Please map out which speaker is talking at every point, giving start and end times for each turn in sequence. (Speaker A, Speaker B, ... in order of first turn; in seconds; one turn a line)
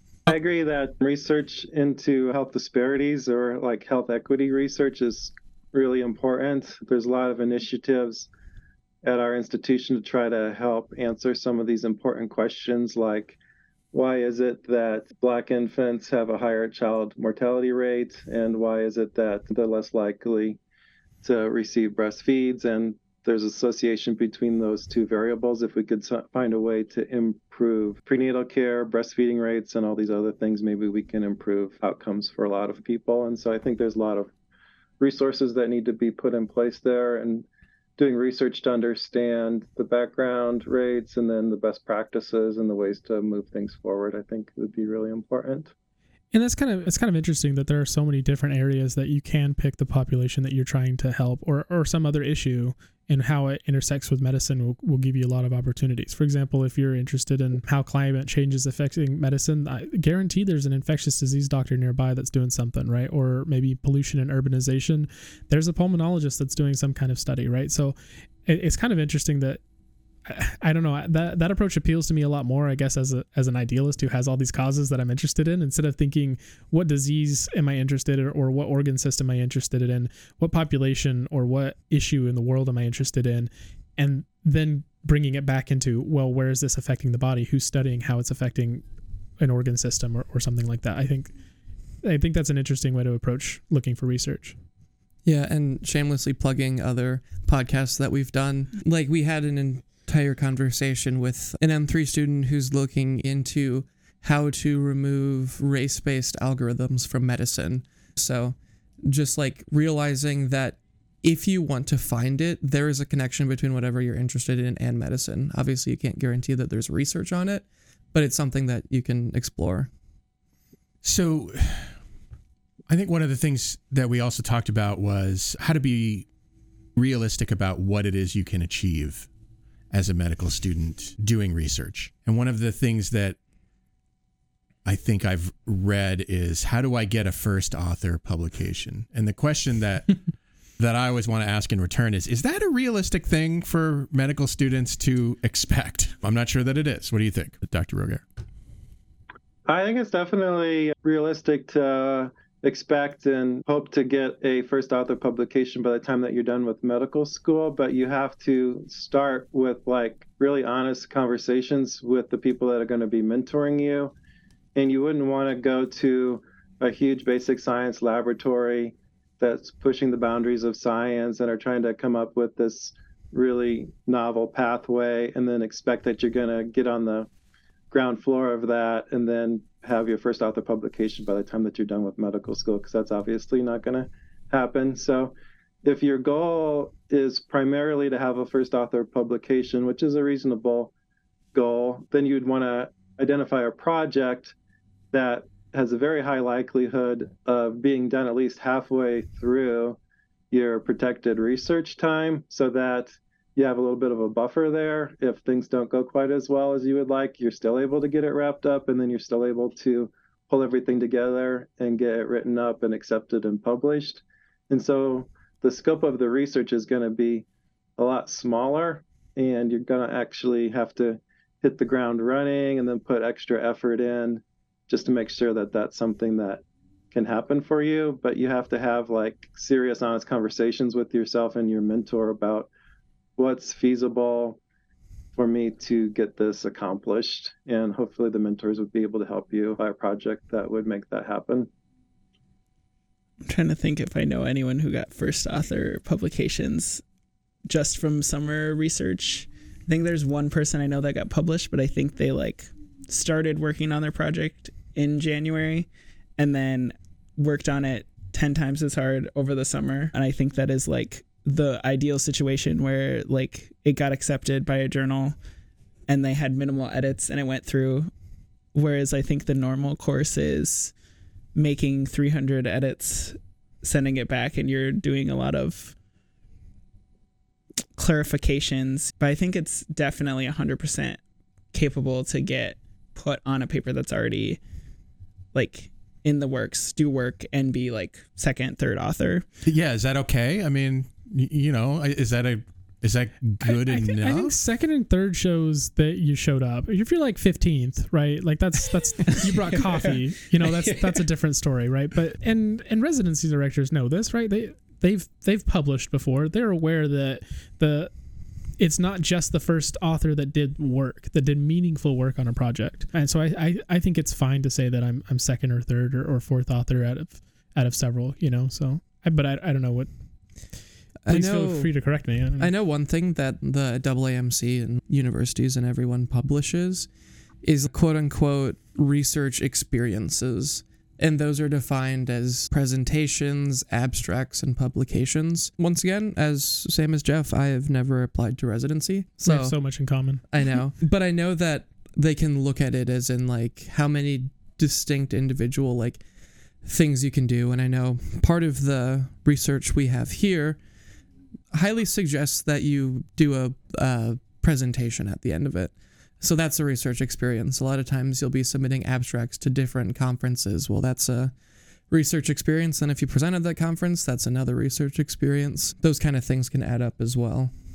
Speaker A: 0.3-8.3
Speaker A: 9.0-13.4
Speaker A: 13.9-20.6
Speaker A: 21.2-34.3
Speaker A: 35.0-37.5
Speaker A: 38.0-45.7
Speaker B: 46.3-69.6
Speaker B: 70.2-88.8
Speaker B: 89.4-91.3
Speaker B: 92.0-94.5
Speaker C: 95.2-119.9
Speaker D: 121.0-122.0
Speaker D: 122.9-126.3
Speaker D: 127.0-129.3
Speaker D: 129.9-133.4
Speaker D: 134.8-140.2
Speaker D: 140.8-148.2
Speaker A: 149.7-164.1
Speaker A: 164.8-177.3
Speaker A: 177.9-190.9
Speaker A: 191.5-194.5
Speaker A: 195.1-200.0
Speaker A: 200.5-217.4
Speaker A: 218.0-232.7
Speaker A: 233.4-234.6
Speaker A: 235.3-241.7
Speaker E: 243.4-247.0
Speaker E: 247.7-265.4
Speaker E: 266.1-268.1
Speaker E: 268.7-270.9
Speaker E: 271.6-275.9
Speaker E: 278.0-281.2
Speaker E: 281.7-284.6
Speaker E: 285.5-289.4
Speaker D: 289.6-294.6
Speaker B: 293.6-308.1
Speaker E: 300.7-301.1
Speaker B: 308.8-320.1
Speaker C: 321.2-321.9
Speaker B: 321.3-322.7
Speaker C: 322.6-327.1
Speaker C: 327.6-339.8
Speaker B: 339.4-340.4
Speaker C: 340.5-346.2
Speaker C: 346.8-350.8
Speaker C: 351.7-361.5
Speaker C: 362.1-367.7